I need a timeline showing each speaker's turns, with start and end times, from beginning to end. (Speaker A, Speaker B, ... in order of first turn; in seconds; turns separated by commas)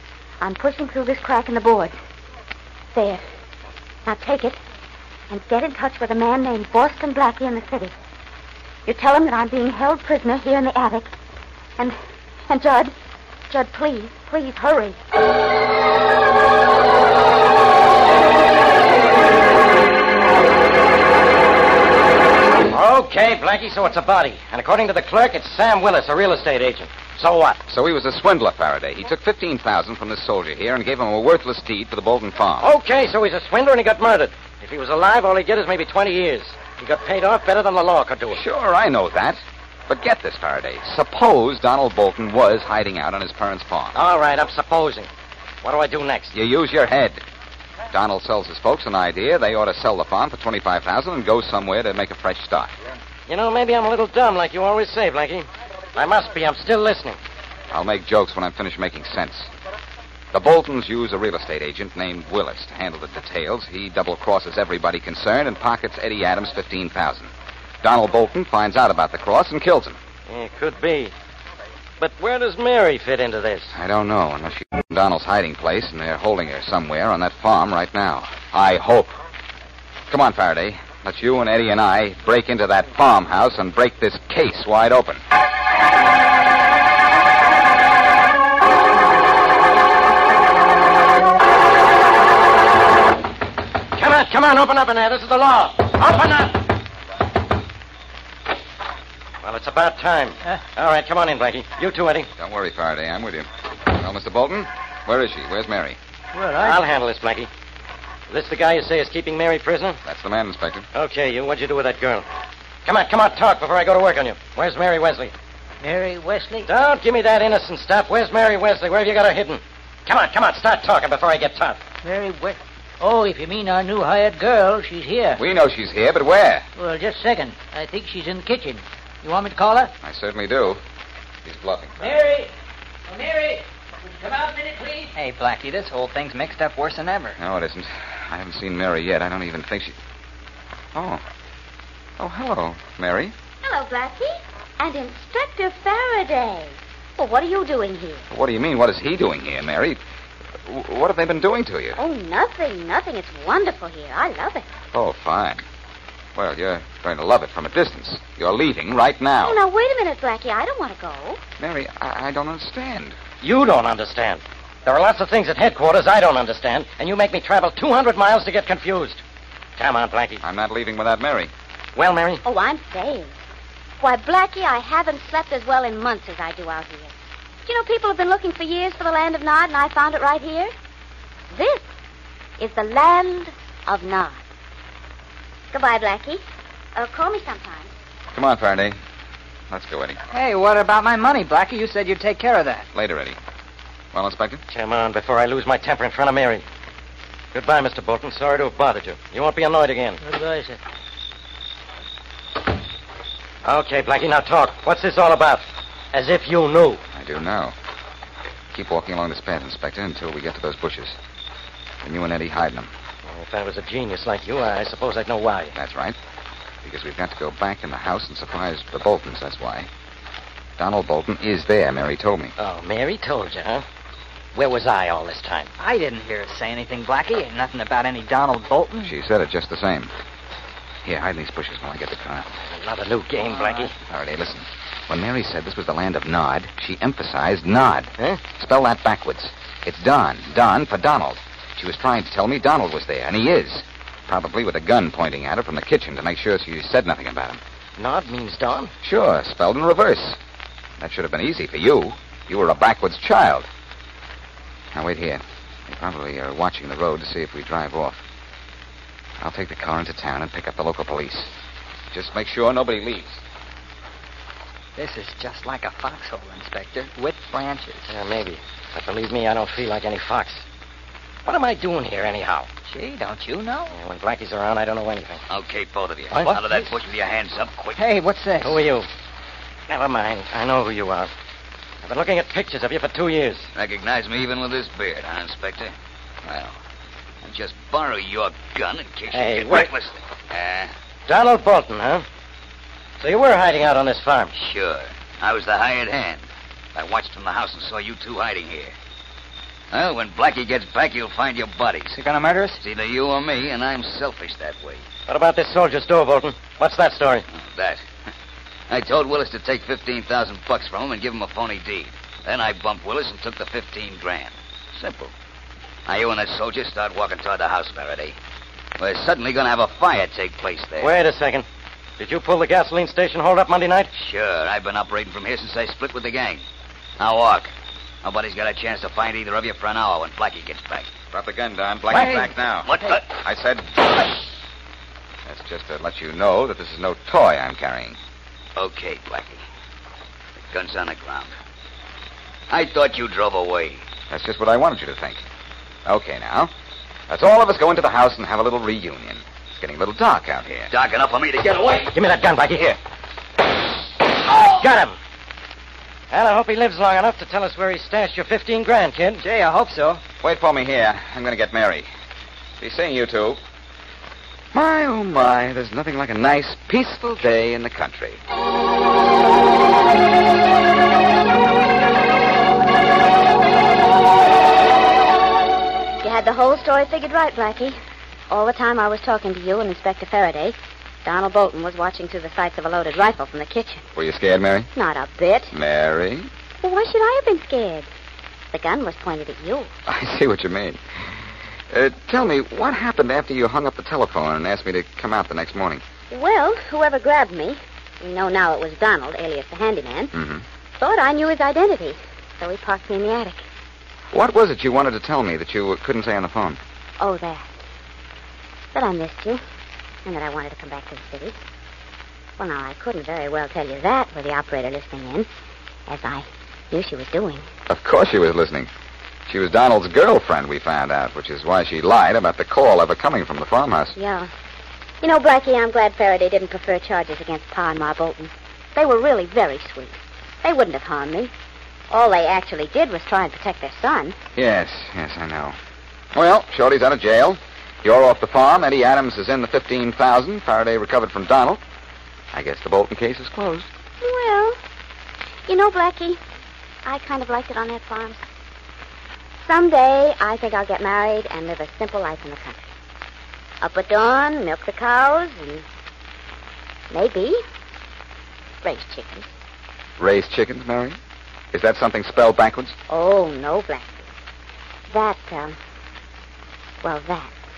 Speaker A: 0.4-1.9, Speaker A: 2.9-3.2, Speaker A: 4.0-4.6, Speaker A: 5.3-7.9, Speaker A: 8.9-11.1, Speaker A: 12.5-12.9, Speaker A: 13.5-15.0, Speaker B: 22.7-27.6, Speaker C: 27.7-32.7, Speaker B: 32.6-38.4, Speaker C: 38.3-44.0, Speaker B: 43.9-45.1, Speaker B: 45.6-46.4, Speaker C: 46.3-47.2, Speaker C: 47.9-52.7, Speaker B: 53.3-57.2, Speaker C: 57.7-59.5, Speaker C: 60.3-67.3, Speaker C: 67.8-70.0, Speaker B: 70.3-71.1, Speaker B: 72.0-73.7, Speaker C: 73.7-79.1, Speaker C: 80.1-85.2, Speaker B: 93.9-96.6, Speaker B: 99.4-102.3, Speaker C: 102.4-106.0, Speaker D: 106.3-106.8, Speaker B: 106.6-107.5, Speaker B: 108.3-110.0, Speaker C: 110.0-110.9, Speaker B: 110.9-112.3, Speaker B: 112.8-115.3, Speaker D: 115.8-116.7, Speaker B: 116.7-121.8, Speaker D: 122.0-125.4, Speaker C: 125.4-126.6, Speaker D: 126.8-129.9, Speaker C: 130.0-130.8, Speaker C: 131.4-132.0, Speaker D: 132.0-132.5, Speaker D: 133.1-135.1, Speaker E: 135.1-137.4, Speaker C: 137.4-139.9, Speaker C: 140.9-141.2, Speaker C: 142.2-143.3, Speaker A: 143.6-148.2, Speaker C: 148.3-150.0, Speaker C: 150.7-152.0, Speaker A: 152.0-154.7, Speaker C: 154.9-155.6, Speaker C: 156.3-159.6, Speaker A: 159.4-161.4, Speaker C: 161.6-163.1, Speaker B: 163.4-169.2, Speaker B: 169.8-170.4, Speaker C: 170.4-171.5, Speaker B: 171.9-172.4, Speaker A: 172.4-173.4, Speaker A: 174.0-177.1, Speaker A: 177.7-180.7, Speaker A: 181.5-181.8, Speaker A: 182.6-184.4, Speaker A: 185.7-186.4, Speaker A: 186.9-187.9, Speaker C: 188.3-189.0, Speaker C: 189.7-190.2, Speaker E: 190.3-192.9, Speaker C: 192.9-193.4, Speaker C: 194.1-194.6, Speaker B: 194.7-196.6, Speaker B: 197.5-200.2, Speaker D: 200.2-200.8, Speaker B: 203.6-207.0, Speaker C: 207.1-207.7, Speaker C: 208.7-211.2, Speaker C: 212.0-212.9, Speaker B: 213.3-215.8, Speaker C: 215.8-216.2, Speaker C: 216.8-219.9, Speaker C: 220.8-222.5, Speaker B: 222.6-223.8, Speaker B: 224.5-225.7, Speaker E: 225.8-229.1, Speaker C: 229.1-230.1, Speaker C: 231.0-232.5, Speaker B: 232.6-233.9, Speaker C: 234.1-247.6, Speaker B: 248.0-248.9, Speaker C: 249.0-250.4, Speaker C: 251.0-253.7, Speaker C: 254.9-258.2, Speaker C: 259.4-261.5, Speaker C: 262.1-263.4, Speaker E: 264.9-268.1, Speaker B: 268.1-270.6, Speaker B: 271.4-272.7, Speaker E: 272.9-273.9, Speaker B: 273.9-275.4, Speaker F: 275.5-278.0, Speaker E: 278.0-278.8, Speaker B: 278.6-279.1, Speaker B: 279.9-281.3, Speaker B: 282.0-283.7, Speaker F: 283.8-285.9, Speaker F: 286.4-286.8, Speaker F: 287.4-290.9, Speaker B: 289.3-289.9, Speaker B: 291.3-292.2, Speaker B: 293.2-294.5, Speaker F: 294.6-298.9, Speaker F: 299.9-302.2, Speaker E: 302.1-302.8, Speaker F: 302.8-305.0, Speaker B: 305.3-307.4, Speaker F: 307.5-308.0, Speaker F: 308.9-315.3, Speaker F: 316.1-318.4, Speaker F: 319.0-321.1, Speaker B: 321.0-321.6, Speaker B: 322.2-324.1, Speaker F: 324.2-326.6, Speaker F: 327.2-327.7, Speaker F: 328.2-331.1, Speaker C: 331.3-334.3, Speaker B: 332.1-332.5, Speaker F: 332.1-333.3, Speaker C: 335.4-338.2, Speaker F: 338.8-339.6, Speaker F: 340.7-341.5, Speaker F: 342.7-344.0, Speaker C: 344.3-345.4, Speaker C: 346.1-346.7, Speaker C: 347.3-350.9, Speaker F: 350.9-352.1, Speaker B: 352.1-353.0, Speaker B: 354.4-355.2, Speaker B: 356.3-359.4, Speaker E: 359.4-360.2, Speaker C: 360.4-362.1, Speaker C: 362.8-363.6, Speaker C: 364.7-368.4, Speaker A: 376.2-378.0, Speaker A: 378.5-384.0, Speaker C: 384.1-384.9, Speaker A: 384.9-385.7, Speaker C: 385.7-386.5, Speaker A: 386.8-388.1, Speaker A: 388.7-389.9, Speaker C: 390.1-391.0, Speaker C: 391.9-396.0, Speaker A: 396.3-400.3, Speaker C: 400.3-400.6, Speaker A: 401.0-403.6, Speaker C: 404.3-406.8, Speaker A: 407.2-407.7, Speaker A: 408.9-409.6, Speaker A: 410.2-411.6, Speaker A: 412.6-415.5, Speaker A: 416.1-417.7, Speaker C: 417.9-418.9, Speaker C: 419.5-424.1, Speaker A: 424.1-424.5, Speaker A: 425.2-431.5, Speaker A: 432.1-434.4, Speaker C: 434.6-435.8, Speaker C: 436.3-441.8, Speaker C: 442.5-443.9, Speaker A: 444.2-444.8, Speaker A: 445.7-446.4, Speaker A: 447.1-448.4, Speaker A: 449.6-452.9, Speaker A: 453.8-455.9, Speaker A: 457.1-457.6, Speaker A: 458.8-459.5, Speaker C: 460.2-461.2, Speaker C: 461.7-462.9, Speaker A: 463.1-464.2, Speaker A: 465.1-465.8, Speaker A: 467.0-467.5